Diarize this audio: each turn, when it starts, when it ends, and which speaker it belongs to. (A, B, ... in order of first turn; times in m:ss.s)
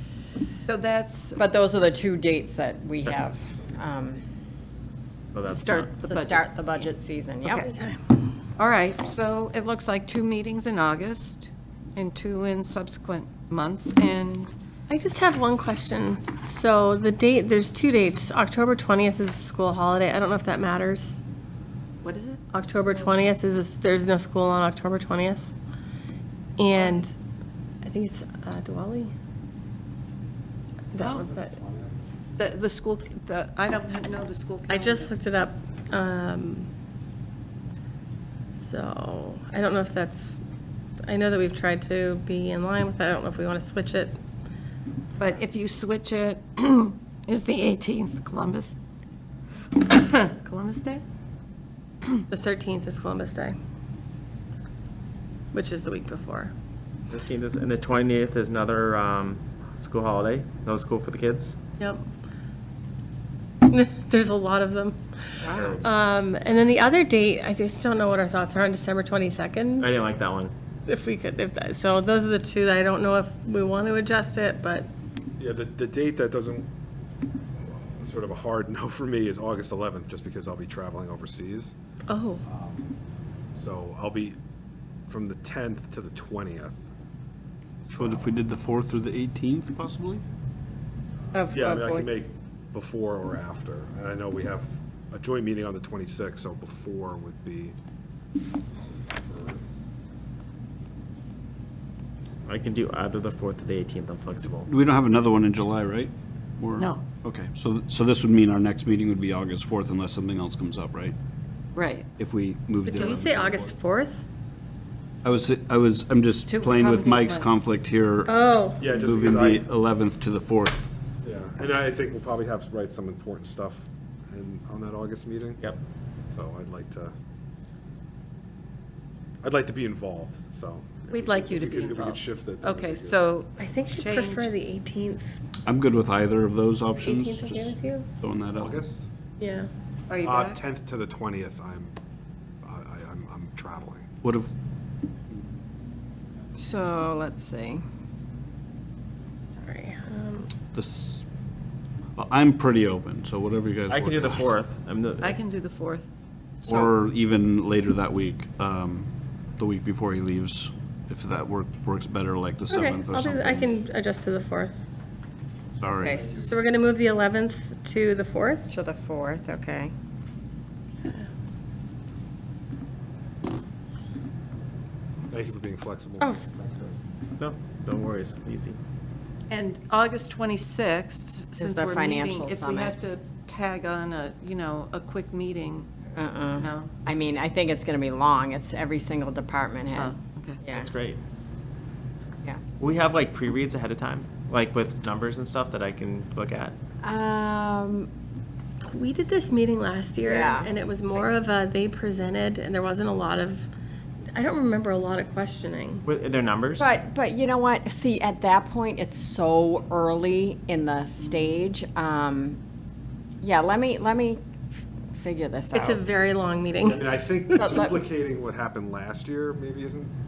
0:00.6-0:01.4 A
0:01.4-0:04.2 B
0:05.3-0:05.9 C
0:05.6-0:07.7 B
0:06.0-0:06.8 A
0:07.6-0:08.2 D
0:08.6-0:14.5 A
0:14.9-0:21.2 D
0:22.0-0:22.4 A
0:22.5-0:25.5 D
0:26.6-0:27.1 D
0:26.8-0:27.0 A
0:27.8-0:29.1 D
0:30.9-0:31.6 D
0:31.0-0:31.2 A
0:31.3-0:32.0 E
0:32.4-0:35.1 A
0:34.7-0:36.7 D
0:38.5-0:40.4 D
0:41.0-0:44.2 D
0:45.2-0:48.7 A
0:49.8-0:51.0 A
0:52.3-0:53.6 D
0:55.5-0:56.5 D
0:57.1-1:01.6 C
1:01.8-1:02.0 D
1:03.6-1:09.9 D
1:05.4-1:05.8 B
1:05.5-1:05.8 C
1:09.8-1:10.5 C
1:10.9-1:14.9 D
1:15.4-1:16.7 E
1:17.6-1:21.7 E
1:22.1-1:22.4 D
1:22.4-1:22.9 E
1:23.5-1:24.4 E
1:25.1-1:26.8 E
1:27.9-1:30.2 F
1:27.9-1:28.2 E
1:31.3-1:32.1 D
1:31.4-1:37.7 E
1:38.9-1:39.6 E
1:42.4-1:44.7 C
1:44.6-1:51.1 F
1:46.8-1:47.0 A
1:51.7-1:52.1 A
1:52.2-1:53.7 F
1:52.8-1:54.2 D
1:52.8-1:53.2 A
1:55.2-1:58.3 F
1:56.4-1:57.5 A
1:58.2-1:58.9 D
1:58.8-1:59.6 E
1:58.9-2:01.0 F
2:01.2-2:05.7 E
2:06.3-2:07.1 E
2:09.4-2:13.2 E
2:11.1-2:14.5 A
2:13.6-2:15.4 D
2:15.6-2:18.8 F
2:17.0-2:18.1 D
2:18.5-2:19.0 E
2:19.4-2:19.7 D
2:20.1-2:20.6 A
2:20.2-2:21.9 E
2:22.6-2:24.0 E
2:24.2-2:24.5 F
2:26.6-2:27.8 B
2:29.5-2:30.5 D
2:30.7-2:31.2 F
2:32.2-2:34.5 F
2:33.9-2:35.4 C
2:35.2-2:36.1 A
2:36.6-2:36.9 B
2:36.6-2:43.8 F
2:42.7-2:44.8 D
2:45.8-2:46.3 F
2:46.0-2:46.6 B
2:46.2-2:46.6 E
2:46.4-2:48.7 D
2:48.7-2:49.9 B
2:55.3-2:57.0 E
2:57.4-2:58.8 C
2:59.5-3:05.9 A
3:01.6-3:03.0 B
3:06.1-3:10.9 B
3:06.6-3:06.9 A
3:10.0-3:10.6 A
3:10.7-3:11.2 C
3:12.8-3:16.8 C
3:17.0-3:18.1 B
3:18.8-3:23.7 D
3:20.2-3:20.8 B
3:24.3-3:26.0 D
3:26.0-3:26.9 C
3:26.8-3:32.6 B
3:33.4-3:34.4 B
3:35.1-3:36.0 B
3:35.7-3:37.0 D
3:36.9-3:40.1 E
3:37.6-3:38.0 B